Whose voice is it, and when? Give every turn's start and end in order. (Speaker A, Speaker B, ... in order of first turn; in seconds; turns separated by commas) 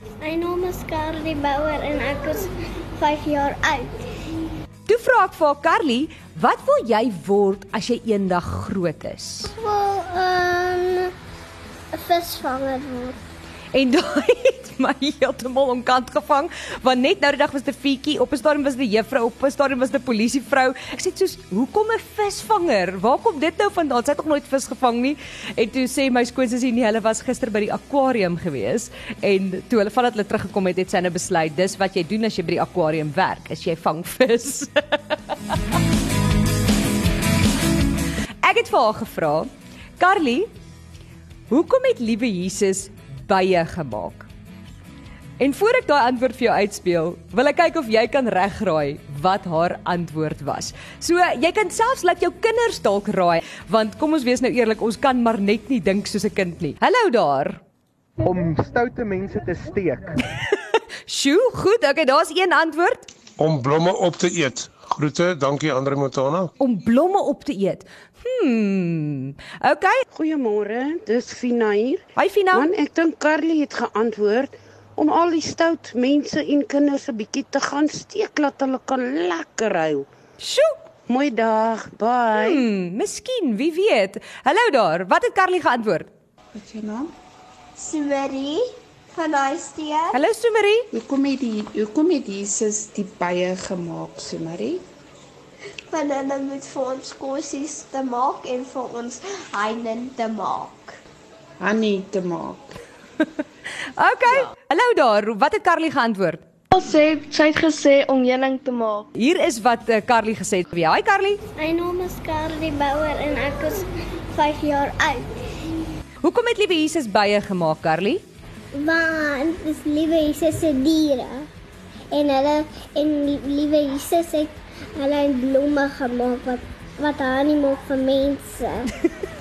Speaker A: 0.2-4.0, Speaker B: 4.9-9.5, Speaker A: 9.5-11.1, Speaker A: 11.9-13.2, Speaker B: 13.7-35.0, Speaker B: 38.4-40.5, Speaker B: 41.5-44.3, Speaker B: 45.4-57.6, Speaker C: 58.2-60.1, Speaker B: 60.5-63.1, Speaker D: 63.4-66.5, Speaker B: 66.6-70.0, Speaker E: 70.1-80.1, Speaker B: 72.2-72.7, Speaker B: 80.4-80.7, Speaker E: 81.1-82.7, Speaker B: 82.3-86.1, Speaker F: 86.5-87.1, Speaker A: 87.8-90.2, Speaker B: 90.1-90.9, Speaker F: 90.9-94.8, Speaker A: 95.9-100.9, Speaker F: 101.6-102.8, Speaker B: 104.0-106.4, Speaker G: 106.7-109.1, Speaker B: 109.2-111.4, Speaker A: 111.6-115.2, Speaker B: 116.2-118.2, Speaker A: 118.7-121.5, Speaker A: 122.1-128.9